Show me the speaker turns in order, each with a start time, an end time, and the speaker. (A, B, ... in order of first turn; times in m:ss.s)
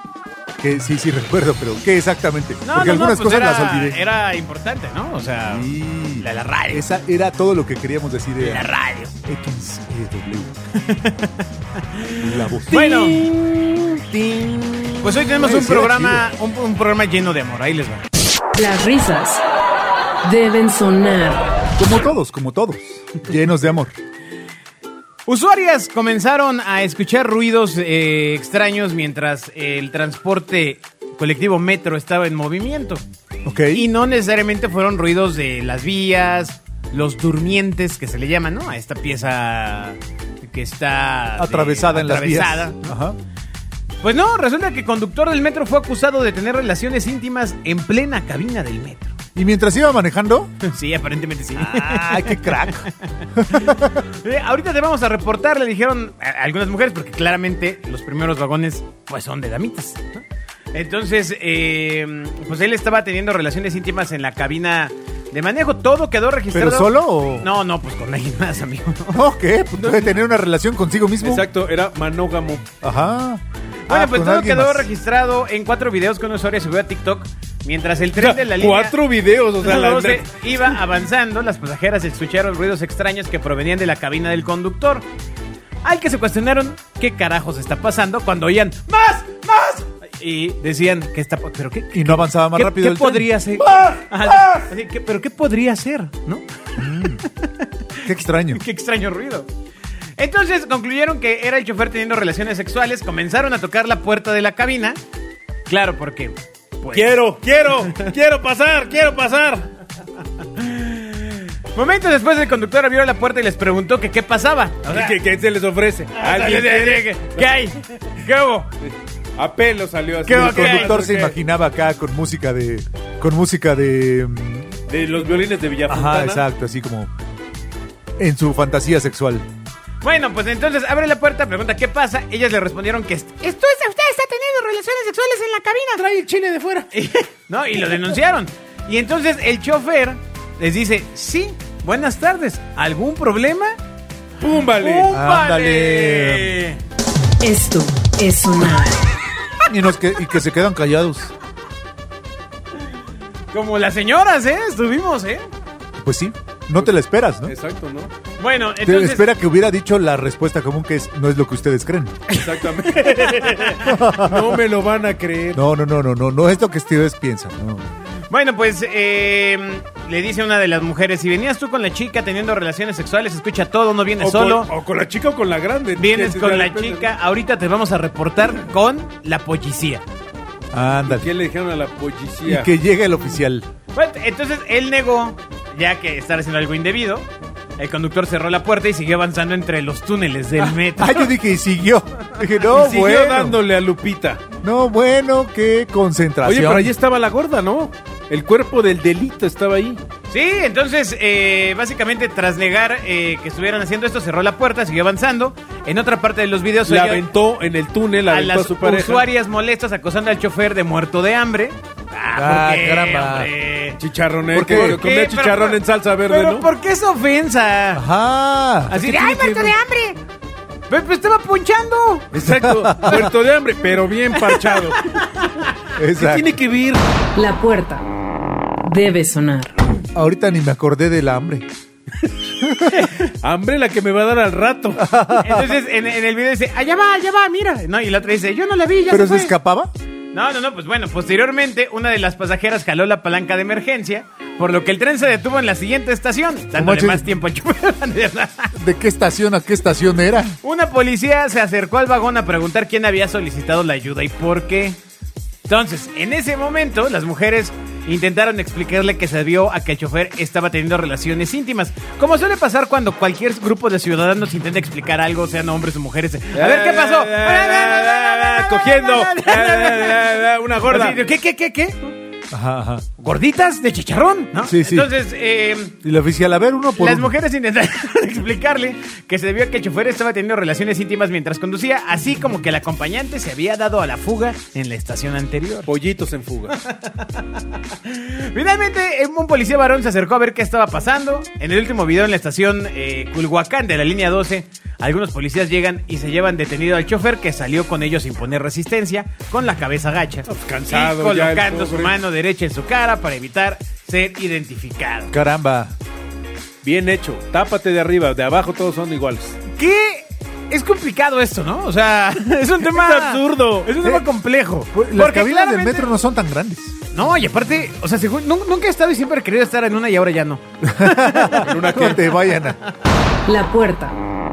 0:00.6-0:04.0 A
0:02.6-0:06.9 B
0:05.4-0:08.7 A
0:08.4-0:09.1 B
0:09.2-0:10.6 A
0:10.8-0:13.2 B
0:12.2-0:12.8 A
0:12.7-0:15.1 C
0:15.0-0:18.0 B
0:15.4-0:16.2 A
0:18.6-0:19.4 D
0:20.2-0:21.5 D
0:21.8-0:23.9 A
0:25.3-0:33.0 B
0:33.4-0:33.9 A
0:33.7-0:43.0 B
0:41.4-0:43.2 A
0:44.0-0:49.2 B
0:49.4-0:50.5 A
0:50.6-0:52.9 B
0:51.6-0:54.0 A
0:53.5-1:09.2 B
1:06.5-1:07.5 A
1:09.1-1:11.5 A
1:09.8-1:10.1 C
1:11.2-1:12.7 C
1:12.8-1:14.9 A
1:13.9-1:19.0 B
1:18.2-1:20.3 C
1:19.6-1:25.0 B
1:25.8-1:39.5 B
1:31.9-1:33.6 A
1:33.8-1:34.6 C
1:36.8-1:37.2 A
1:38.0-1:38.6 A
1:40.2-1:45.0 B
1:45.7-1:47.1 B
1:46.9-1:49.7 C
1:50.6-1:55.2 B
1:54.9-1:57.5 C
1:56.2-1:58.7 B
1:58.8-2:01.4 C
2:00.3-2:01.0 B
2:00.3-2:04.8 A
2:04.9-2:06.4 C
2:05.9-2:07.1 A
2:08.2-2:09.5 A
2:10.0-2:16.1 B
2:16.0-2:16.9 C
2:16.9-2:23.8 B
2:24.4-2:25.1 C
2:24.6-2:26.8 B
2:25.1-2:26.6 A
2:27.4-2:29.0 D
2:29.6-2:31.3 A
2:33.5-2:35.5 B
2:36.0-2:37.5 A
2:37.5-2:38.1 C
2:38.4-2:39.3 B
2:38.8-2:42.2 A
2:42.3-2:43.8 B
2:42.3-2:45.6 C
2:43.8-2:44.6 A
2:45.5-2:47.9 A
2:48.3-2:54.7 B
2:54.2-2:57.1 C
2:56.0-3:00.0 B
3:00.7-3:01.3 A
3:01.1-3:02.7 C
3:02.4-3:03.7 A
3:03.9-3:07.3 B
3:07.8-3:11.3 B
3:11.0-3:13.6 A
3:12.7-3:14.4 C
3:14.6-3:16.9 A
3:16.4-3:20.0 C
3:20.3-3:27.2 B
3:26.9-3:29.3 C
3:28.3-3:34.0 B
3:32.3-3:33.5 A
3:34.0-3:36.7 C
3:34.5-3:35.0 A
3:34.6-3:38.0 B
3:37.9-3:39.0 A
3:38.9-3:40.2 B
3:39.0-3:39.7 C
3:40.9-3:42.3 B
3:42.3-3:45.0 C
3:42.4-3:43.3 A
3:44.4-3:45.2 B
3:46.0-3:46.5 A
3:46.2-3:47.0 C
3:47.4-3:48.1 D
3:48.8-3:49.7 D
3:50.1-3:51.7 A
3:52.6-3:52.9 A
3:53.4-3:55.0 C
3:55.0-3:55.7 A
3:55.4-3:59.5 B
3:59.1-3:59.9 A
4:00.3-4:08.7 B
4:06.7-4:07.3 A
4:08.8-4:10.6 A
4:10.6-4:15.0 B
4:15.7-4:32.1 B
4:26.6-4:31.2 C
4:32.5-4:33.1 A
4:33.2-4:36.0 B
4:34.6-4:35.1 A
4:36.0-4:37.3 A
4:37.0-4:45.9 B
4:45.8-4:46.8 C
4:46.8-4:47.4 B
4:48.0-5:05.3 B
5:00.5-5:02.2 C
5:05.3-5:05.9 A
5:06.8-5:09.6 C
5:09.7-5:16.1 B
5:12.9-5:13.9 C
5:14.9-5:16.9 A
5:17.1-5:20.6 B
5:20.8-5:22.8 A
5:21.2-5:21.6 B
5:21.5-5:22.4 C
5:23.5-5:24.2 D